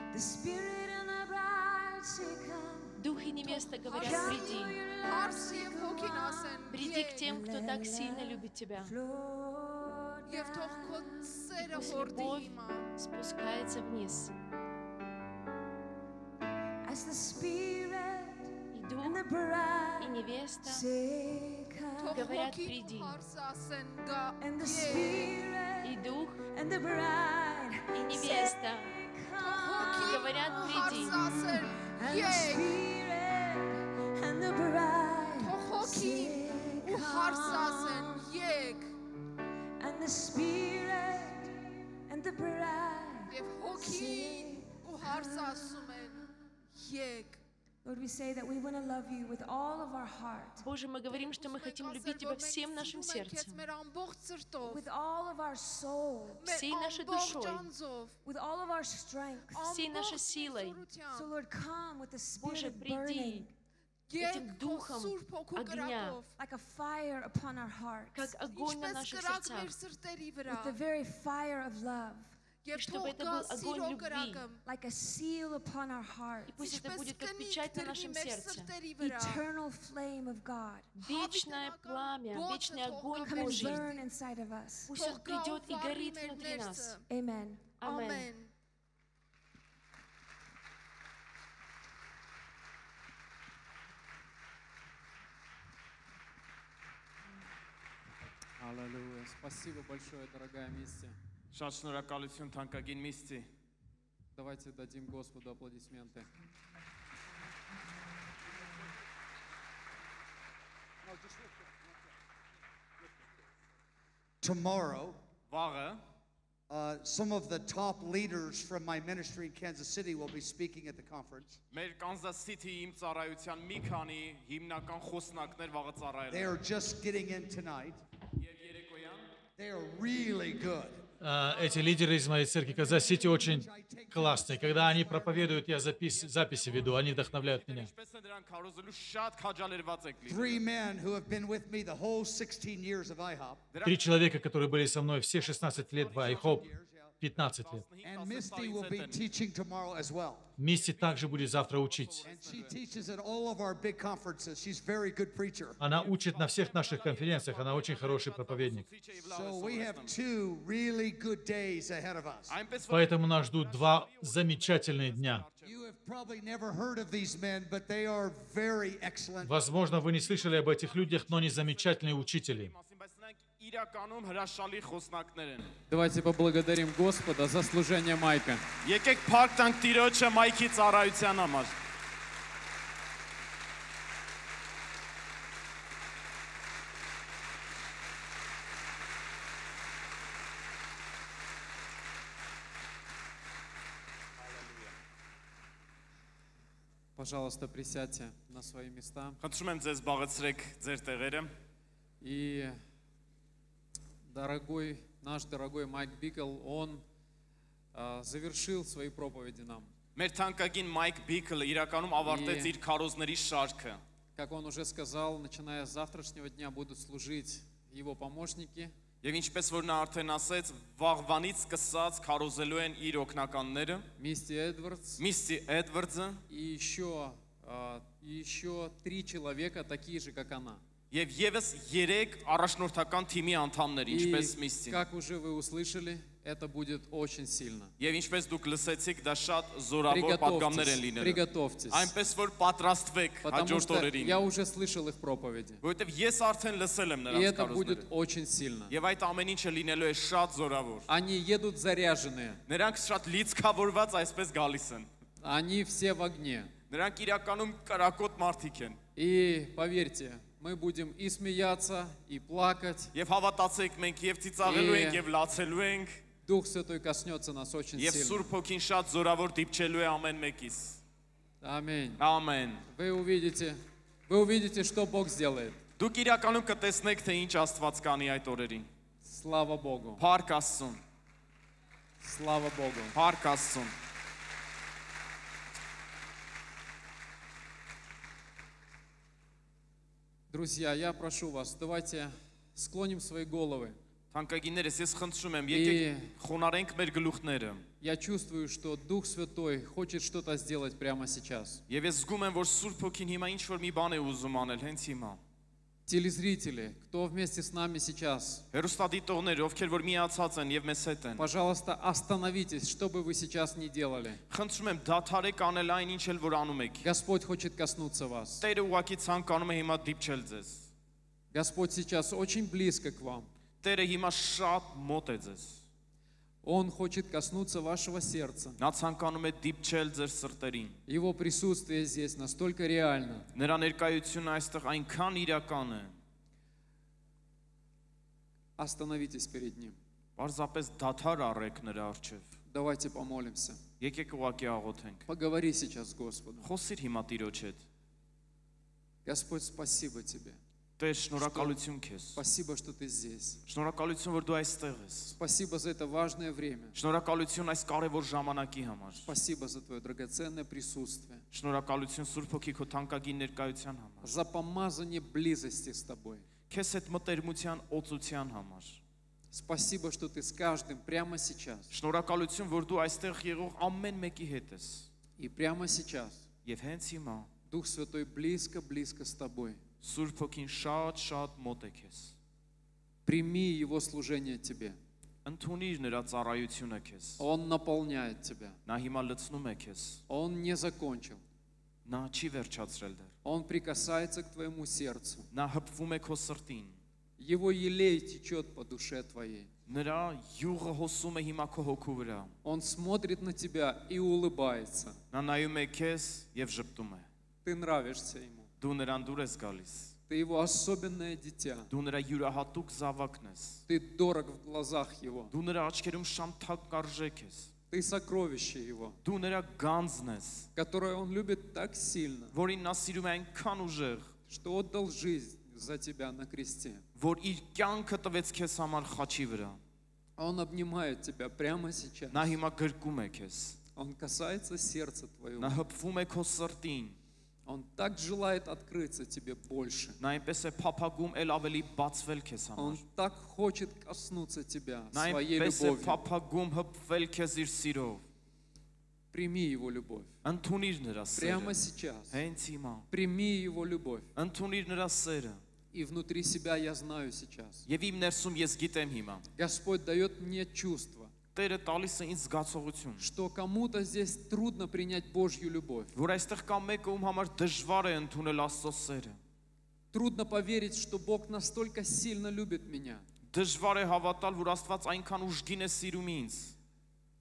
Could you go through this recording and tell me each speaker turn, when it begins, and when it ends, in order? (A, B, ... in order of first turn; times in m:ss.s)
0:00.1-0:12.1 A
0:03.0-0:04.8 B
0:03.8-0:07.3 C
0:06.7-0:08.9 B
0:10.3-0:12.9 C
0:11.7-0:14.3 B
0:16.8-0:22.2 A
0:18.7-0:19.2 B
0:20.0-0:20.8 B
0:22.0-0:25.4 C
0:22.1-0:23.1 B
0:24.4-0:38.3 A
0:25.8-0:26.4 B
0:27.9-0:28.9 B
0:29.4-0:32.7 C
0:30.0-0:31.1 B
0:35.4-0:38.9 C
0:39.8-0:46.4 A
0:43.3-0:46.2 C
0:46.8-0:47.4 C
0:47.8-0:51.2 A
0:50.6-0:53.6 B
0:51.2-0:54.8 C
0:54.6-0:56.6 A
0:56.4-0:58.2 C
0:56.5-0:57.7 B
0:58.2-0:59.7 A
0:59.5-1:01.3 C
0:59.7-1:00.9 B
1:01.1-1:03.5 A
1:02.4-1:03.5 B
1:04.1-1:06.3 C
1:04.2-1:06.2 B
1:06.4-1:08.4 A
1:08.1-1:09.8 B
1:08.5-1:10.8 C
1:10.4-1:12.4 A
1:12.6-1:14.6 C
1:12.7-1:14.4 B
1:14.6-1:16.6 A
1:16.5-1:18.7 B
1:16.6-1:19.4 C
1:19.0-1:21.0 A
1:20.9-1:23.9 B
1:21.0-1:24.0 C
1:23.1-1:25.0 A
1:24.9-1:27.0 B
1:24.9-1:27.0 C
1:27.1-1:27.8 A
1:27.8-1:28.3 B
1:27.8-1:28.5 C
1:38.6-1:41.2 D
1:41.5-1:43.5 E
1:44.4-1:46.3 D
1:54.4-1:55.2 F
1:55.5-1:56.0 E
1:56.7-2:01.6 F
2:01.7-2:06.6 E
2:06.3-2:08.0 F
2:08.4-2:09.2 E
2:09.6-2:11.0 F
2:11.2-2:17.9 G
2:13.2-2:15.6 F
2:16.3-2:16.6 E
2:17.3-2:20.6 E
2:20.2-2:23.6 F
2:23.7-2:24.1 E
2:23.8-2:27.8 G
2:25.5-2:26.7 E
2:26.0-2:27.1 F
2:27.2-2:29.2 E
2:28.0-2:30.5 F
2:30.6-2:32.3 G
2:30.7-2:32.8 E
2:32.2-2:35.8 F
2:35.8-2:38.9 G
2:35.8-2:40.2 E
2:39.2-2:42.5 F
2:42.5-2:45.8 E
2:42.9-2:45.5 G
2:45.6-2:49.5 F
2:49.4-2:52.7 G
2:51.1-2:55.8 E
2:55.9-2:58.6 D
2:58.8-3:01.7 E
3:17.2-3:19.4 D
3:19.4-3:21.5 E
3:22.2-3:22.8 D
3:24.3-3:27.0 D
3:27.9-3:29.9 D
3:30.1-3:34.0 E
3:32.2-3:32.7 D
3:34.4-3:38.9 D
3:39.2-3:44.0 E
3:44.2-3:45.2 D
3:45.2-3:46.4 E
3:46.5-3:50.8 D
3:51.1-3:55.0 E
3:54.1-3:57.9 D
3:58.0-4:04.4 E
4:00.1-4:02.1 D
4:03.4-4:05.8 D
4:05.8-4:08.0 E
4:07.3-4:08.9 D
4:08.9-4:11.0 E
4:11.1-4:12.6 D
4:12.7-4:15.1 E
4:15.4-4:16.7 D
4:16.9-4:19.0 E
4:19.2-4:23.1 D
4:23.1-4:26.2 E
4:24.6-4:25.3 D
4:26.4-4:28.5 D
4:28.0-4:31.0 E
4:31.6-4:32.2 D
4:32.2-4:32.8 E
4:32.9-4:35.8 D
4:36.0-4:38.9 E
4:39.2-4:40.2 D
4:40.2-4:41.0 E
4:42.2-4:43.1 D
4:43.1-4:43.9 E
4:50.5-4:54.0 D
4:54.3-4:57.8 E
4:55.7-4:56.3 D
4:58.0-5:01.8 D
5:01.9-5:05.4 E
5:06.1-5:08.6 D
5:08.7-5:11.4 E
5:11.4-5:14.4 D
5:14.5-5:17.1 E
5:17.0-5:18.6 D
5:18.6-5:20.8 E
5:21.5-5:23.5 D
5:23.8-5:25.8 E
5:26.6-5:28.8 D
5:28.8-5:31.0 E
5:31.1-5:33.5 D
5:33.5-5:36.1 E
5:38.8-5:40.0 D
5:40.4-5:42.5 E
5:42.7-5:43.8 D
5:44.0-5:45.2 E
5:45.3-5:46.7 D
5:46.6-5:47.8 E
5:49.2-5:50.6 D
5:51.0-5:52.4 E
5:51.4-5:51.8 D
5:52.3-5:53.6 D
5:53.7-5:55.3 E
5:55.4-5:57.0 D
5:56.9-5:59.3 E
5:59.2-6:01.4 D
6:01.5-6:04.3 E
6:04.2-6:06.4 D
6:06.7-6:09.0 E
6:09.5-6:11.9 D
6:11.9-6:15.1 E
6:15.4-6:16.4 D
6:16.6-6:17.5 E
6:17.7-6:19.8 D
6:20.0-6:22.3 E
6:23.2-6:25.0 D
6:25.4-6:27.4 E
6:27.4-6:28.8 D
6:28.8-6:30.2 E
6:30.3-6:31.4 D
6:32.0-6:33.3 E
6:33.4-6:35.5 D
6:35.5-6:37.0 E
6:37.4-6:39.7 D
6:39.9-6:42.5 E
6:42.6-6:45.2 D
6:45.3-6:47.3 E
6:47.6-6:48.7 D
6:48.8-6:50.1 E
6:50.3-6:51.9 D
6:51.9-6:53.8 E
6:53.9-6:55.5 D
6:55.5-6:57.7 E
6:57.9-6:59.2 D
6:59.2-7:00.7 E
7:00.8-7:02.5 D
7:02.5-7:04.3 E
7:04.5-7:07.0 D
7:07.2-7:09.8 E
7:10.4-7:12.6 D
7:12.3-7:13.8 E
7:14.0-7:15.8 D
7:15.6-7:17.2 E
7:17.6-7:20.2 D
7:20.2-7:23.0 E
7:22.8-7:26.2 D
7:25.1-7:28.2 E
7:29.3-7:30.3 D
7:30.4-7:31.8 E
7:31.3-7:32.3 D
7:32.3-7:33.1 E
7:33.1-7:34.3 D
7:34.3-7:35.6 E
7:35.9-7:37.8 D
7:37.8-7:39.5 E
7:39.6-7:41.3 D
7:41.5-7:43.2 E
7:43.2-7:46.1 D
7:46.1-7:49.4 E
7:50.1-7:53.2 D
7:53.5-7:56.7 E